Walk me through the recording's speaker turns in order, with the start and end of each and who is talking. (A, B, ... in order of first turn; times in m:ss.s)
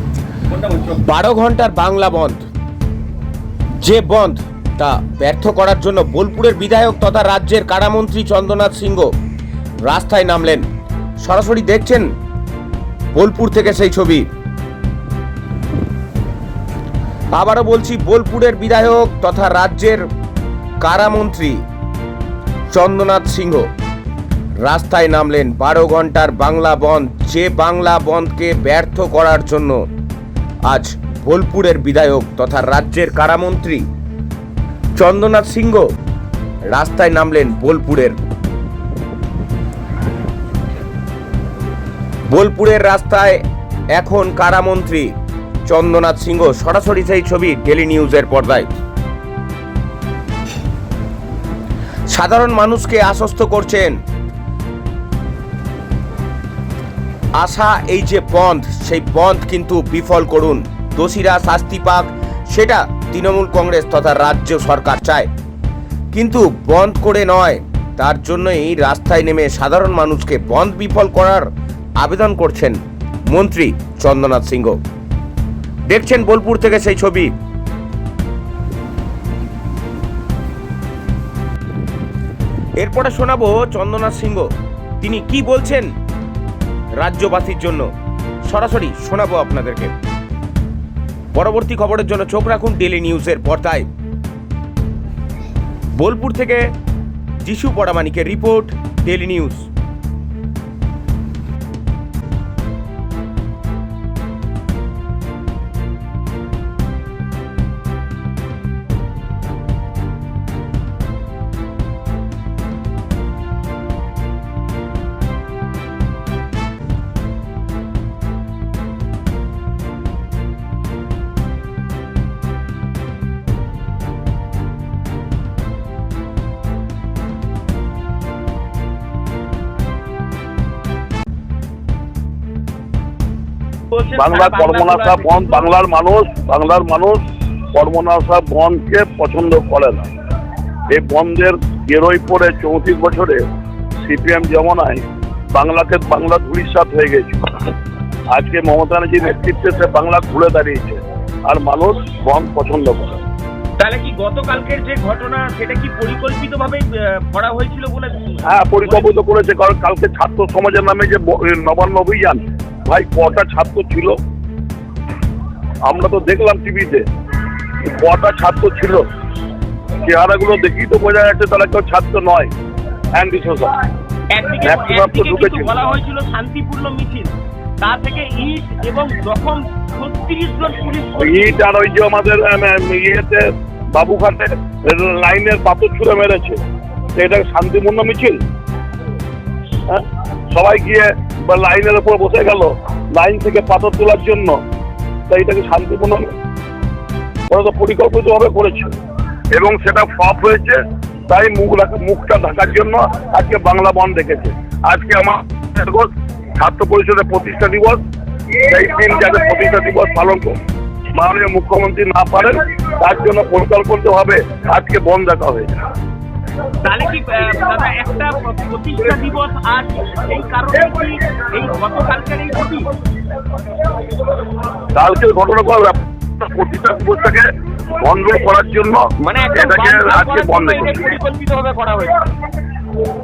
0:00.5-0:00.9 A
0:01.0-0:02.4 B
0:03.8-0:09.1 B
0:09.8-0:10.6 B
0:11.2-0:12.1 B
0:13.1-0:14.3 B
0:17.3-0:20.0 B
0:20.8-0:21.6 B
0:22.7-0:23.7 B
0:24.6-0:29.8 B
0:30.7-0:33.8 B
0:35.0-0:35.9 B
0:36.7-0:38.2 B
0:42.3-0:43.4 B
0:43.9-0:45.1 B
0:45.6-0:48.7 B
0:52.1-0:54.0 B
0:57.4-1:05.3 B
1:06.1-1:11.5 B
1:12.0-1:12.8 B
1:13.3-1:14.8 B
1:15.9-1:17.3 B
1:22.8-1:24.5 B
1:25.0-1:25.9 B
1:27.0-1:27.9 B
1:28.4-1:29.9 B
1:31.3-1:33.8 B
1:36.0-1:36.6 B
1:37.4-1:39.7 B
2:13.9-2:15.7 A
2:14.1-2:17.2 C
2:17.7-2:20.0 C
2:20.9-2:23.4 C
2:24.0-2:25.0 C
2:25.5-2:27.6 C
2:28.3-2:33.2 C
2:33.8-2:39.2 A
2:38.4-2:44.2 C
2:45.8-2:47.0 C
2:47.8-2:49.0 C
2:50.0-2:52.5 C
2:53.1-2:53.9 C
2:54.3-3:01.6 A
2:54.6-2:55.8 C
3:01.2-3:06.6 C
3:07.2-3:08.4 C
3:09.9-3:14.6 C
3:15.3-3:16.3 C
3:17.5-3:18.9 C
3:19.5-3:28.0 C
3:28.6-3:30.5 C
3:31.1-3:35.7 C
3:36.8-3:42.9 A
3:44.9-3:47.5 C
3:48.0-3:51.2 C
3:49.2-3:52.2 A